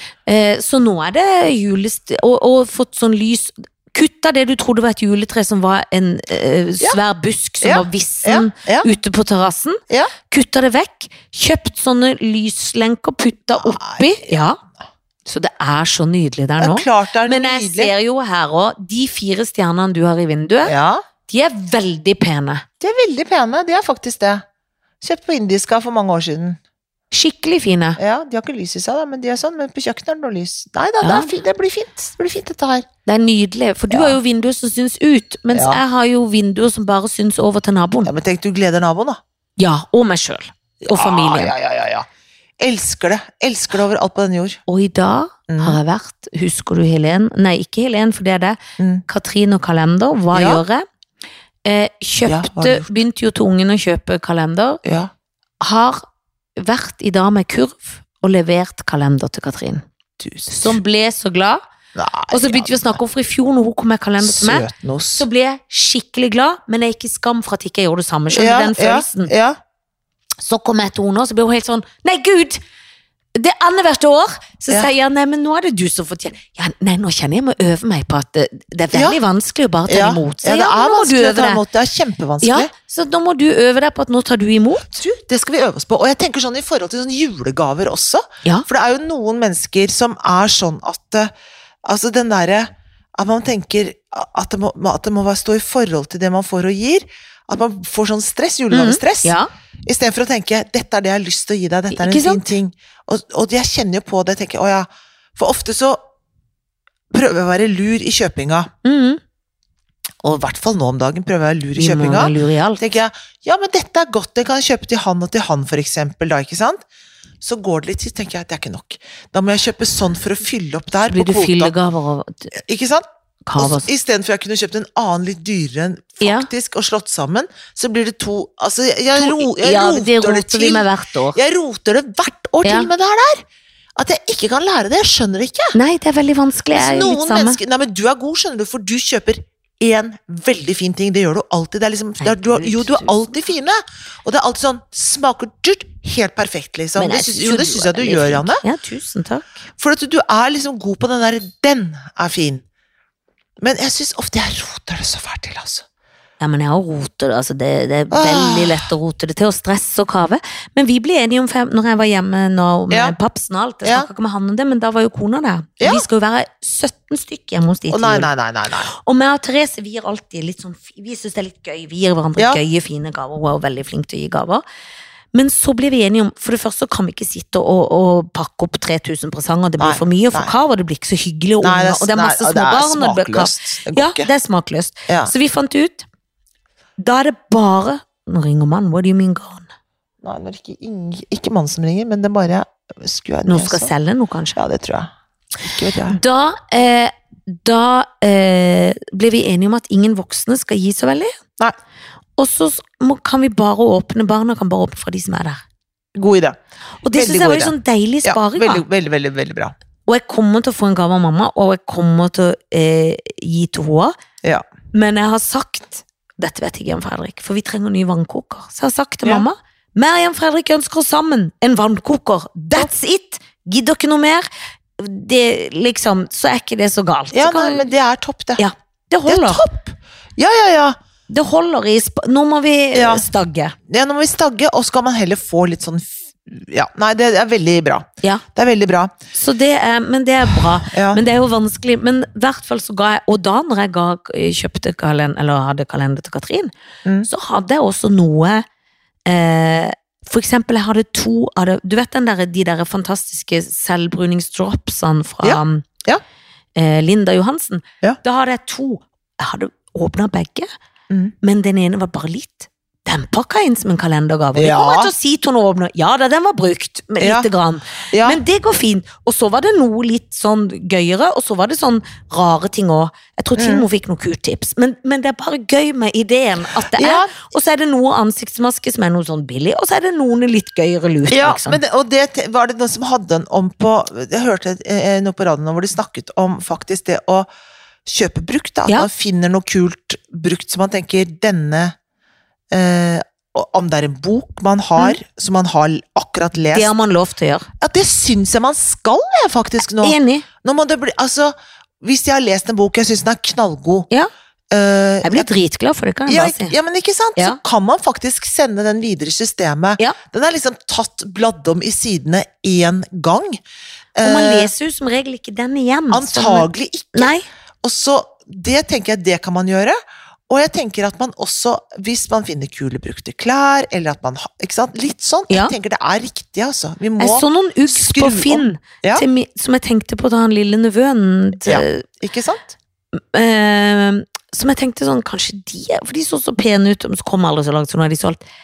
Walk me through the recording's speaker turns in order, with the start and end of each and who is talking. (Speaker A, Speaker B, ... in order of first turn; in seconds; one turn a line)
Speaker A: 0.3-14.6
Speaker B: 7.6-8.9
Speaker B: 13.6-14.4
Speaker A: 15.3-20.8
Speaker B: 16.6-17.9
Speaker B: 20.6-21.0
Speaker A: 21.3-22.6
Speaker B: 22.8-24.4
Speaker B: 25.0-26.6
Speaker A: 27.1-28.0
Speaker B: 28.0-32.9
Speaker A: 31.0-31.3
Speaker A: 33.1-38.1
Speaker B: 33.9-34.2
Speaker B: 35.5-35.8
Speaker B: 38.0-39.2
Speaker A: 39.6-41.5
Speaker B: 40.9-42.1
Speaker B: 42.6-44.6
Speaker A: 44.7-50.9
Speaker B: 45.5-45.8
Speaker B: 48.8-49.0
Speaker B: 50.3-50.6
Speaker A: 51.6-54.8
Speaker B: 52.3-52.9
Speaker B: 54.8-55.1
Speaker A: 55.6-56.0
Speaker A: 56.6-59.8
Speaker B: 60.2-60.8
Speaker A: 60.5-61.6
Speaker B: 62.0-63.0
Speaker A: 62.3-69.3
Speaker B: 64.2-65.3
Speaker B: 68.3-69.6
Speaker A: 70.4-72.6
Speaker A: 73.4-81.6
Speaker B: 78.9-79.2
Speaker B: 79.9-82.7
Speaker A: 82.4-85.0
Speaker B: 85.0-91.3
Speaker B: 91.8-106.0
Speaker A: 98.7-99.5
Speaker A: 101.9-102.4
Speaker B: 107.1-108.7
Speaker A: 108.8-109.2
Speaker B: 110.2-116.8
Speaker A: 111.8-112.9
Speaker B: 117.4-121.7
Speaker A: 121.0-122.5
Speaker B: 122.5-123.0
Speaker A: 123.5-123.9
Speaker B: 123.6-133.4
Speaker A: 126.2-126.5
Speaker A: 129.2-131.4
Speaker A: 132.6-132.9
Speaker B: 134.0-135.8
Speaker A: 135.7-137.6
Speaker B: 136.7-148.6
Speaker A: 142.2-143.1
Speaker A: 147.0-149.6
Speaker B: 149.8-152.6
Speaker B: 153.6-155.8
Speaker A: 156.4-168.3
Speaker B: 158.1-158.9
Speaker B: 165.8-166.1
Speaker B: 167.9-168.9
Speaker A: 168.9-174.6
Speaker B: 172.4-172.6
Speaker A: 175.3-186.1
Speaker B: 179.8-180.5
Speaker B: 181.6-184.3
Speaker A: 187.0-189.7
Speaker B: 190.2-193.9
Speaker A: 193.5-194.6
Speaker B: 194.6-196.2
Speaker A: 196.1-201.4
Speaker A: 202.4-205.6
Speaker B: 206.2-206.6
Speaker A: 207.0-208.8
Speaker B: 207.1-209.7
Speaker A: 210.1-214.2
Speaker A: 214.9-224.5
Speaker A: 225.0-227.9
Speaker B: 227.3-228.6
Speaker A: 228.6-229.7
Speaker B: 229.3-231.0
Speaker A: 231.3-233.8
Speaker B: 232.9-233.2
Speaker B: 233.9-239.1
Speaker A: 239.3-246.7
Speaker B: 240.9-241.2
Speaker A: 247.2-248.7
Speaker A: 249.3-255.9
Speaker B: 255.4-256.2
Speaker A: 256.8-260.7
Speaker A: 261.4-281.8
Speaker B: 264.6-265.1
Speaker B: 267.2-267.5
Speaker B: 268.1-268.4
Speaker B: 273.6-273.9
Speaker B: 276.9-277.4
Speaker B: 281.3-287.5
Speaker B: 288.1-291.9
Speaker B: 292.7-296.9
Speaker A: 296.7-297.7
Speaker B: 297.8-304.1
Speaker A: 300.0-300.5
Speaker B: 304.7-305.5
Speaker A: 305.2-306.8
Speaker B: 306.3-313.6
Speaker B: 314.2-314.7
Speaker A: 314.2-317.5
Speaker B: 316.1-320.0
Speaker B: 320.5-329.2
Speaker A: 327.2-332.1
Speaker B: 331.6-332.8
Speaker A: 333.1-338.4